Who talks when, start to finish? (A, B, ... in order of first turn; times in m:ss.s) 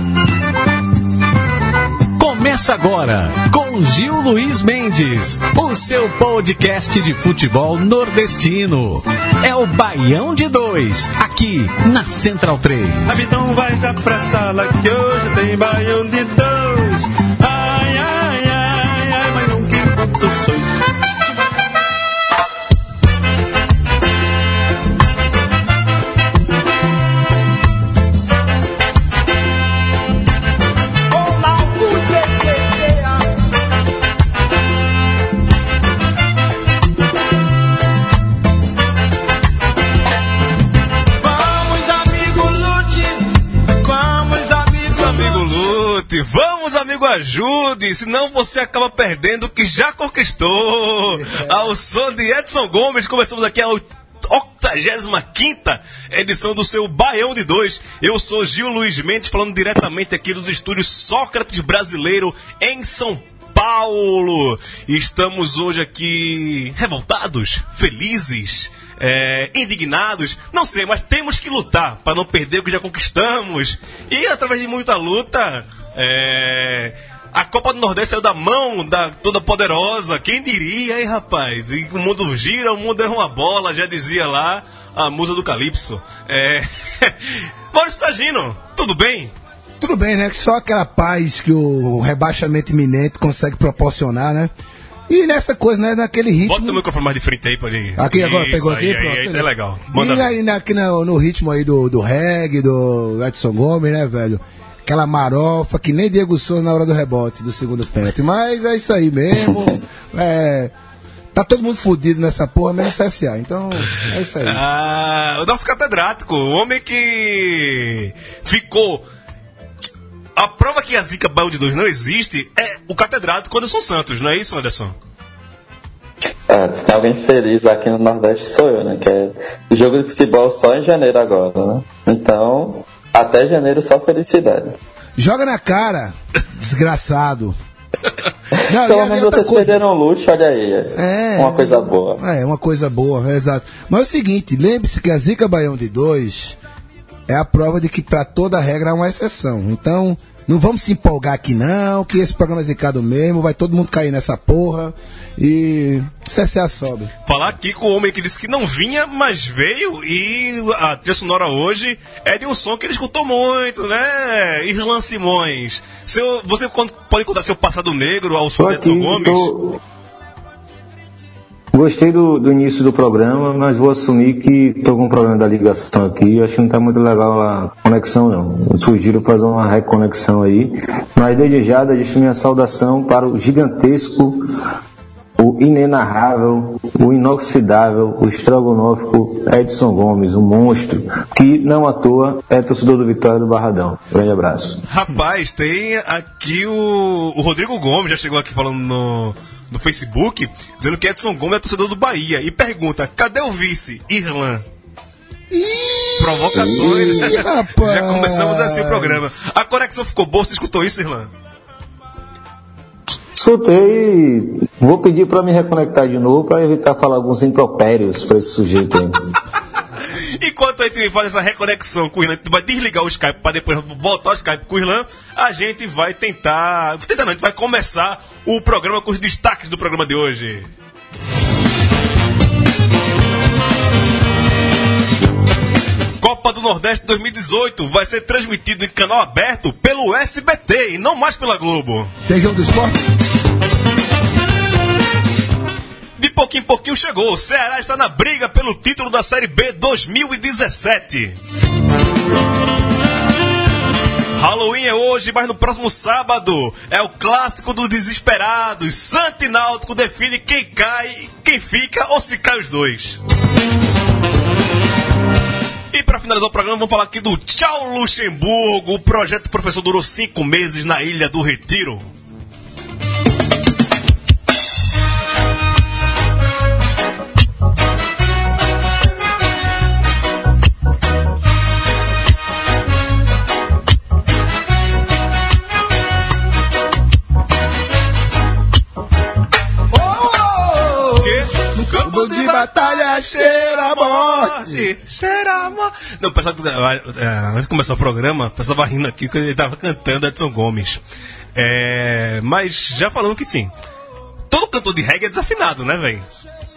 0:02.2-0:13.3 A
0:13.1-0:14.1 B
0:13.2-0:20.8 C
0:31.1-0:33.2 C
0:41.2-0:45.4 C
0:44.8-1:29.3 B
0:51.1-0:51.7 D
1:29.8-1:34.5 D
1:35.1-1:36.8 D
1:36.4-1:40.3 B
1:38.0-1:50.7 D
1:51.3-1:54.6 D
1:54.0-1:59.0 B
2:00.4-2:04.9 B
2:06.5-2:14.8 E
2:15.2-2:17.6 D
2:18.5-2:22.2 E
2:18.7-2:19.8 D
2:20.9-2:26.6 D
2:27.3-2:37.1 D
2:37.2-2:49.5 B
2:48.6-2:49.8 F
2:51.7-3:04.4 F
3:05.4-3:14.8 F
3:14.9-3:24.6 B
3:25.5-3:29.2 D
3:26.2-3:31.3 B
3:33.3-3:39.2 F
3:40.2-3:50.7 B
3:56.2-4:02.1 B
4:02.2-4:03.0 D
4:06.2-4:11.4 B
4:14.3-4:23.2 B
4:25.9-4:32.0 B
4:50.0-4:54.9 D
4:51.1-5:01.0 B
5:01.5-5:03.7 B
5:04.5-5:06.3 B